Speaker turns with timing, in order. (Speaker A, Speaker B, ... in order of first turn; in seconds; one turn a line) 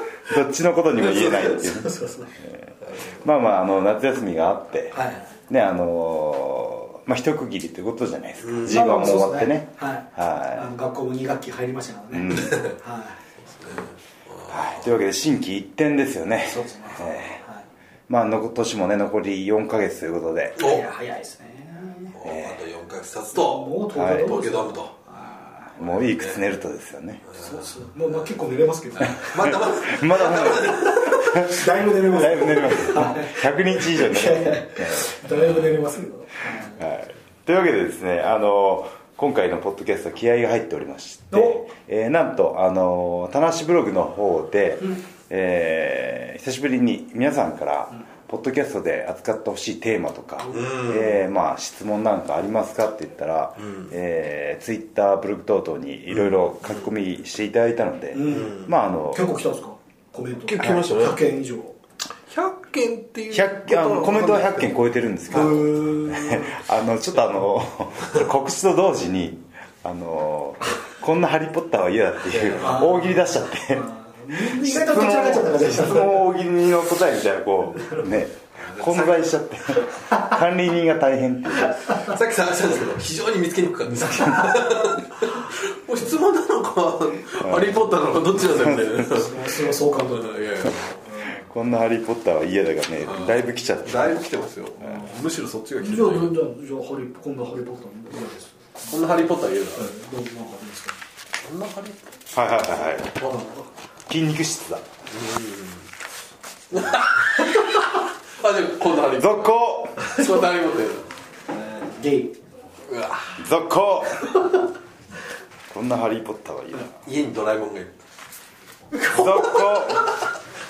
Speaker A: 0.3-10.7
Speaker B: 1.0-1.6
Speaker C: 1.6-2.3
Speaker B: 2.8-3.2
Speaker C: 4.9-5.3
Speaker B: 8.4-8.8
Speaker C: 8.6-13.2
Speaker A: 12.1-12.6
Speaker B: 13.4-14.8
Speaker A: 14.5-17.4
Speaker C: 16.5-17.6
Speaker A: 18.1-20.6
Speaker B: 20.6-20.8
Speaker C: 20.6-22.1
Speaker B: 22.1-24.9
Speaker A: 22.2-22.6
Speaker C: 23.3-25.7
Speaker A: 23.9-24.3
Speaker A: 25.8-27.2
Speaker B: 25.8-26.4
Speaker B: 27.3-27.6
Speaker C: 27.4-29.6
Speaker B: 29.0-31.4
Speaker A: 29.2-35.4
Speaker C: 30.6-36.8
Speaker A: 36.7-59.2
Speaker C: 41.3-41.6
Speaker C: 50.4-50.7
Speaker B: 50.5-51.2
Speaker B: 53.6-53.9
Speaker C: 58.1-61.8
Speaker B: 58.3-58.7
Speaker B: 60.5-61.2
Speaker B: 62.3-64.7
Speaker A: 63.3-82.0
Speaker C: 65.3-66.5
Speaker B: 72.3-72.9
Speaker C: 72.6-73.2
Speaker C: 73.7-76.3
Speaker C: 77.7-78.0
Speaker B: 78.6-79.2
Speaker C: 80.1-80.4
Speaker C: 81.6-82.2
Speaker B: 82.0-91.0
Speaker C: 83.9-84.9
Speaker A: 87.4-87.7
Speaker A: 88.5-88.8
Speaker C: 89.1-90.3
Speaker A: 91.2-94.4
Speaker B: 93.0-96.4
Speaker C: 95.8-99.0
Speaker B: 98.9-99.9
Speaker C: 99.8-101.0
Speaker B: 101.4-102.1
Speaker A: 102.3-103.2
Speaker C: 103.3-103.7
Speaker A: 104.1-104.8
Speaker B: 105.1-105.9
Speaker B: 106.7-111.1
Speaker A: 109.2-110.1
Speaker C: 111.5-112.3
Speaker B: 112.9-113.4
Speaker A: 113.4-114.4
Speaker A: 115.7-116.9
Speaker B: 117.0-118.0
Speaker A: 119.1-120.1